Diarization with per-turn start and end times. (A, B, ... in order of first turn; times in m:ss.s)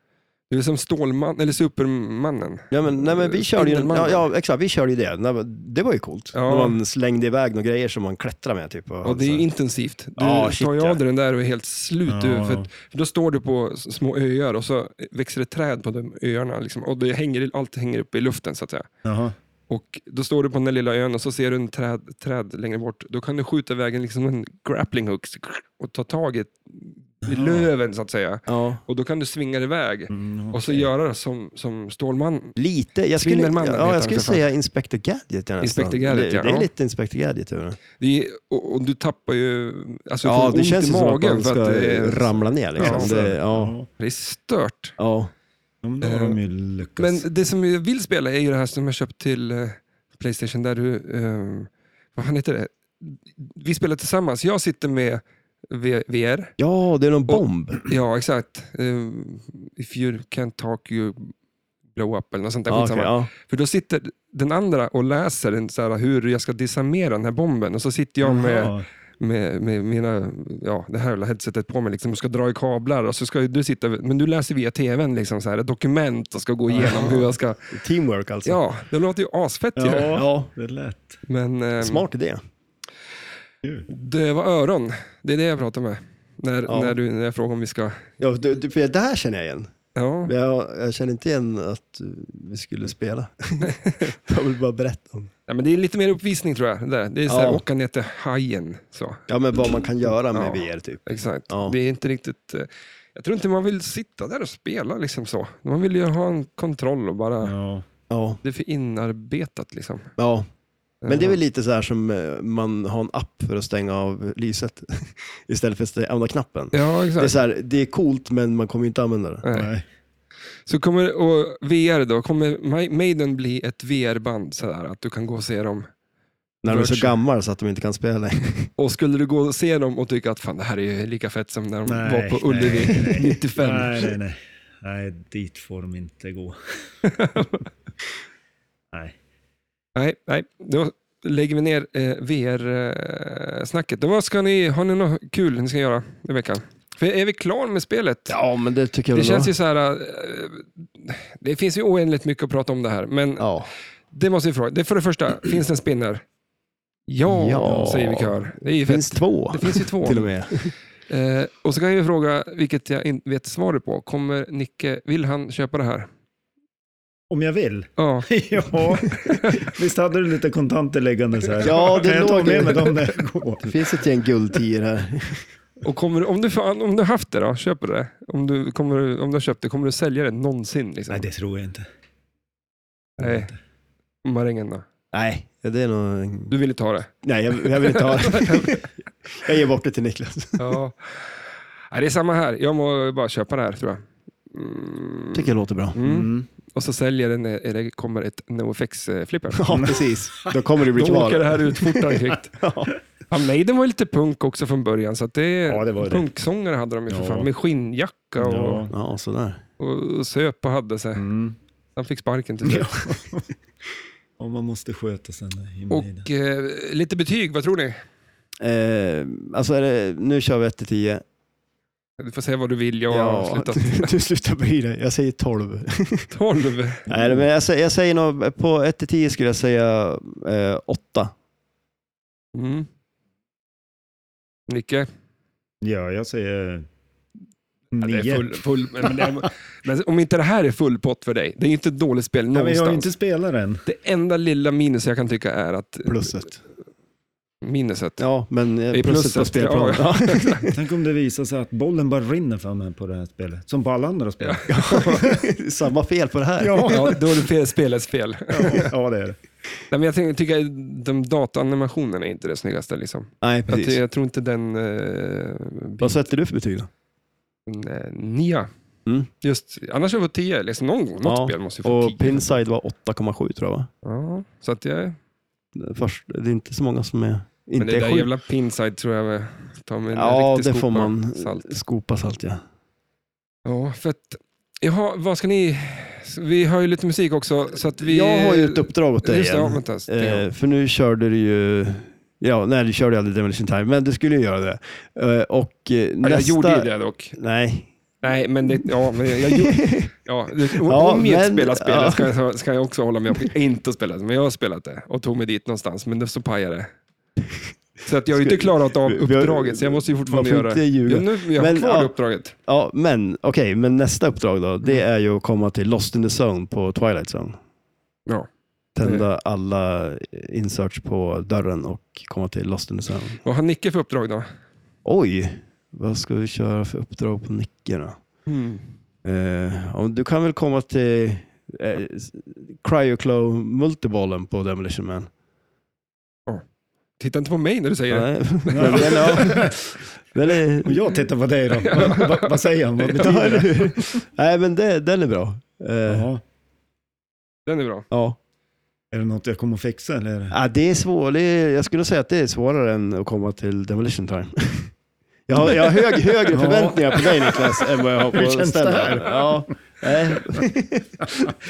0:00.5-0:04.3 A
0:02.7-0:09.4 B
0:06.3-0:06.8 A
0:09.0-0:18.9 A
0:10.2-0:11.0 B
0:12.1-0:12.7 C
0:19.0-0:19.3 C
0:19.7-0:32.6 A
0:27.2-0:27.7 C
0:28.5-0:28.8 B
0:30.1-0:30.9 C
0:32.6-0:37.8 B
0:33.2-0:34.4 A
0:35.6-0:36.7 A
0:38.0-0:43.2 A
0:40.2-0:43.7 B
0:42.8-0:43.9 C
0:44.0-0:45.0 A
0:45.0-0:45.3 B
0:45.8-0:47.2 C
0:46.0-0:46.4 A
0:47.0-0:56.5 A
0:56.6-0:57.8 B
0:57.3-1:01.3 A
1:01.9-1:17.7 A
1:02.7-1:03.3 B
1:08.2-1:08.8 C
1:16.8-1:18.6 B
1:18.4-1:20.2 A
1:19.8-1:21.2 C
1:20.1-1:20.5 B
1:21.3-1:22.0 A
1:21.8-1:22.4 B
1:23.9-1:28.1 A
1:26.7-1:27.0 B
1:28.2-1:29.7 B
1:29.9-1:30.3 A
1:30.2-1:35.3 B
1:33.6-1:34.1 A
1:35.5-1:39.2 A
1:37.3-1:37.6 B
1:39.3-1:41.8 B
1:40.3-1:47.5 A
1:47.4-1:47.8 C
1:48.1-1:48.4 B
1:48.4-1:50.1 A
1:50.2-1:50.5 B
1:51.0-1:51.4 A
1:51.0-1:59.4 B
1:56.7-1:57.3 A
1:59.4-1:59.7 A
1:59.5-1:59.8 C
2:00.6-2:05.9 A
2:06.6-2:08.7 B
2:06.7-2:07.1 A
2:08.8-2:14.1 A
2:11.8-2:16.6 C
2:17.0-2:17.6 A
2:19.9-2:28.4 A
2:28.3-2:29.5 B
2:29.1-2:33.5 A
2:33.4-2:33.7 B
2:34.1-2:36.2 A
2:37.1-2:40.3 A
2:37.3-2:40.7 B
2:41.1-2:46.1 A
2:47.3-2:53.8 C
2:48.0-2:48.3 A
2:49.0-2:49.7 A
2:51.6-2:51.9 A
2:51.6-2:53.0 B
2:53.6-2:55.4 B
2:55.8-3:01.3 A
3:01.1-3:01.8 C
3:03.2-3:03.5 A
3:03.2-3:03.5 C
3:04.2-3:04.8 A
3:05.1-3:06.5 B
3:06.5-3:07.1 A
3:07.2-3:10.8 B
3:07.6-3:08.8 A
3:10.6-3:11.3 A
3:11.9-3:19.8 A
3:15.3-3:16.0 B
3:16.0-3:16.5 C
3:19.5-3:22.0 B
3:19.7-3:20.5 C
3:20.9-3:22.5 A
3:22.5-3:22.9 B
3:23.3-3:28.8 A
3:25.7-3:26.2 C
3:27.1-3:27.5 C
3:28.4-3:28.9 C
3:28.9-3:29.6 B
3:29.8-3:31.2 A
3:31.2-3:31.6 C
3:32.0-3:33.1 A
3:32.6-3:33.5 C
3:34.4-3:36.3 C
3:35.9-3:38.0 A
3:38.6-3:41.2 B
3:42.2-3:44.1 A
3:43.1-3:46.3 B
3:46.3-3:47.0 A
3:47.1-3:51.3 B
3:52.5-3:52.9 A
3:54.7-3:55.1 A
3:55.8-3:56.8 C
3:57.9-3:59.3 C
3:58.0-4:03.1 A
4:02.5-4:03.8 C
4:03.8-4:06.5 A
4:06.0-4:06.6 B
4:07.6-4:08.2 A
4:08.2-4:10.7 B
4:08.9-4:10.7 A
4:10.7-4:15.5 C
4:14.4-4:15.3 A
4:14.7-4:17.2 B
4:16.6-4:17.2 C
4:16.9-4:18.9 A
4:18.5-4:19.4 C
4:19.9-4:26.2 A
4:23.4-4:24.0 B
4:26.0-4:26.9 B
4:27.7-4:28.7 A
4:29.4-4:32.4 A
4:31.2-4:33.9 B
4:34.0-4:35.2 A
4:35.7-4:38.3 B
4:37.8-4:41.7 A
4:40.1-4:42.6 B
4:43.6-4:50.4 A
4:48.0-4:57.9 B
4:56.2-4:57.4 A
4:58.2-5:06.9 A
4:58.8-5:00.1 B
5:00.7-5:02.3 B
5:07.4-5:07.7 B
5:08.0-5:12.5 A
5:08.3-5:12.1 B
5:12.6-5:17.6 B
5:19.0-5:23.4 B
5:19.0-5:19.2 A
5:23.4-5:24.4 A
5:25.0-5:28.2 B
5:28.5-5:28.9 A
5:29.2-5:35.3 B
5:37.2-5:39.5 A
5:38.1-5:39.8 B
5:38.7-5:39.8 C
5:40.3-5:41.1 B
5:40.8-5:44.2 C
5:41.8-5:43.2 A
5:43.1-5:46.3 B
5:46.1-5:46.4 C
5:47.6-5:48.1 A
5:48.1-5:48.4 B
5:49.1-5:50.6 C
5:50.5-5:54.9 B
5:55.5-6:01.5 B
5:55.6-5:55.8 C
5:56.5-6:00.6 C
6:01.2-6:01.5 C